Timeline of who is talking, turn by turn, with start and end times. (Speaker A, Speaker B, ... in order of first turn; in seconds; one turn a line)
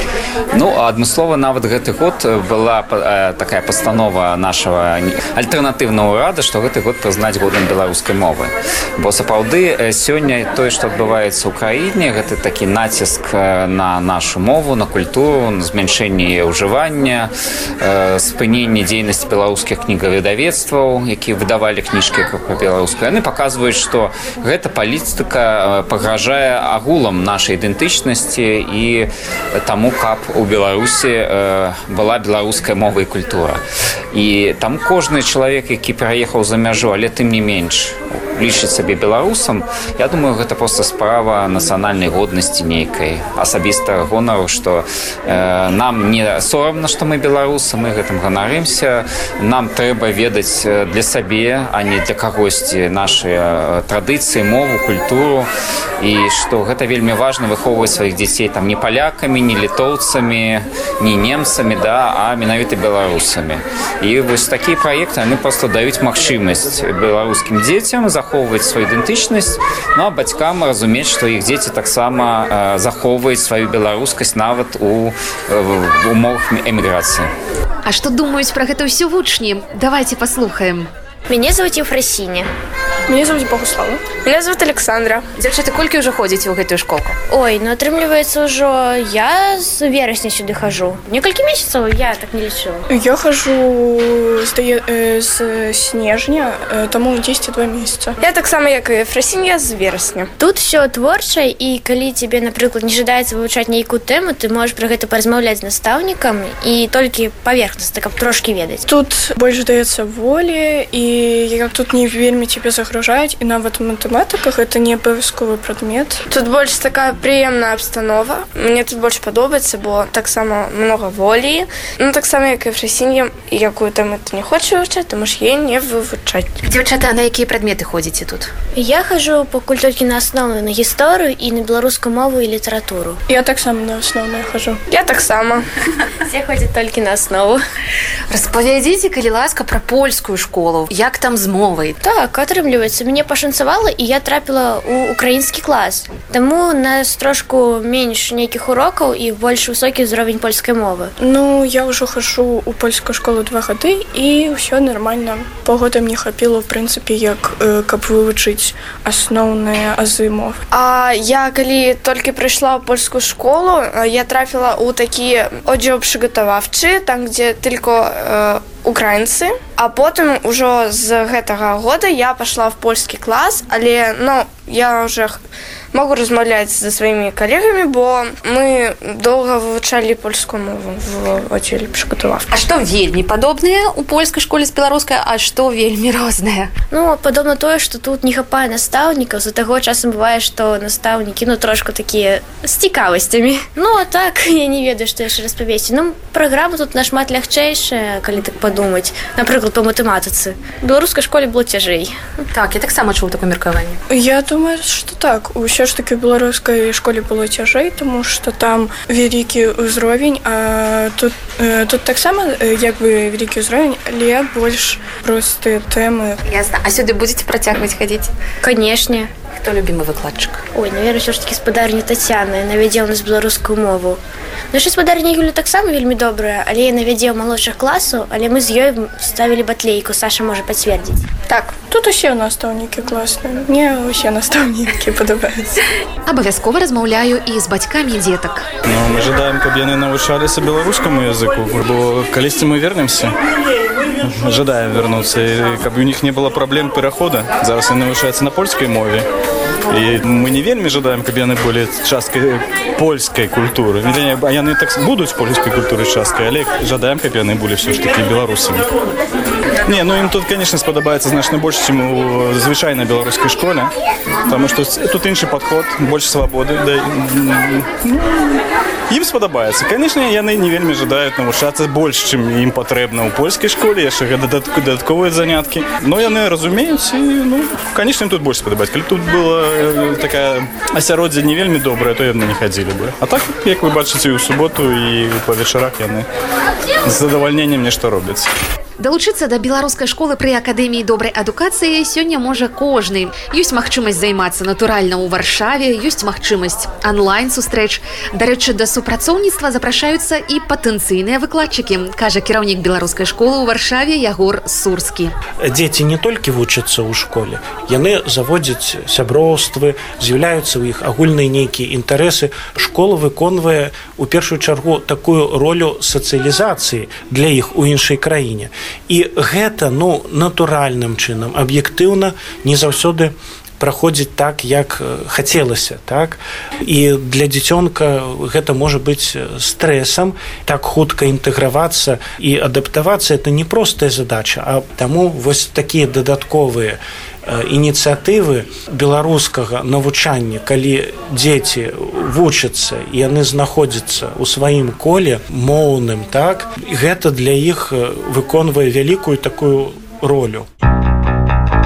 Speaker A: 0.5-55.5
Speaker A: 56.0-77.3
Speaker B: 77.9-80.9
Speaker C: 81.3-82.5
Speaker D: 83.1-84.1
Speaker E: 84.2-85.2
Speaker B: 85.4-87.2
Speaker C: 87.3-92.9
Speaker D: 92.9-98.2
Speaker E: 98.2-100.3
Speaker C: 100.4-108.8
Speaker D: 108.9-116.2
Speaker E: 116.3-126.5
Speaker B: 126.6-128.5
Speaker C: 128.8-133.2
Speaker D: 133.3-134.8
Speaker E: 134.9-135.6
Speaker C: 136.2-137.6
Speaker B: 138.3-142.0
Speaker C: 142.0-151.1
Speaker D: 151.2-160.6
Speaker E: 160.7-175.4
Speaker E: 175.9-182.5
Speaker B: 182.5-186.7
Speaker C: 186.9-202.2
Speaker B: 202.5-204.0
Speaker D: 204.1-216.4
Speaker B: 216.5-218.3
Speaker C: 218.6-219.3
Speaker B: 219.5-220.6
Speaker C: 220.7-224.2
Speaker C: 224.7-231.3
Speaker D: 231.8-235.8
Speaker B: 236.3-238.6
Speaker F: 238.9-243.3
Speaker F: 244.2-249.3
Speaker F: 249.9-258.9
Speaker F: 259.9-263.9
Speaker F: 264.5-286.3
Speaker F: 287.1-288.5
Speaker B: 289.0-305.3
Speaker G: 305.6-350.7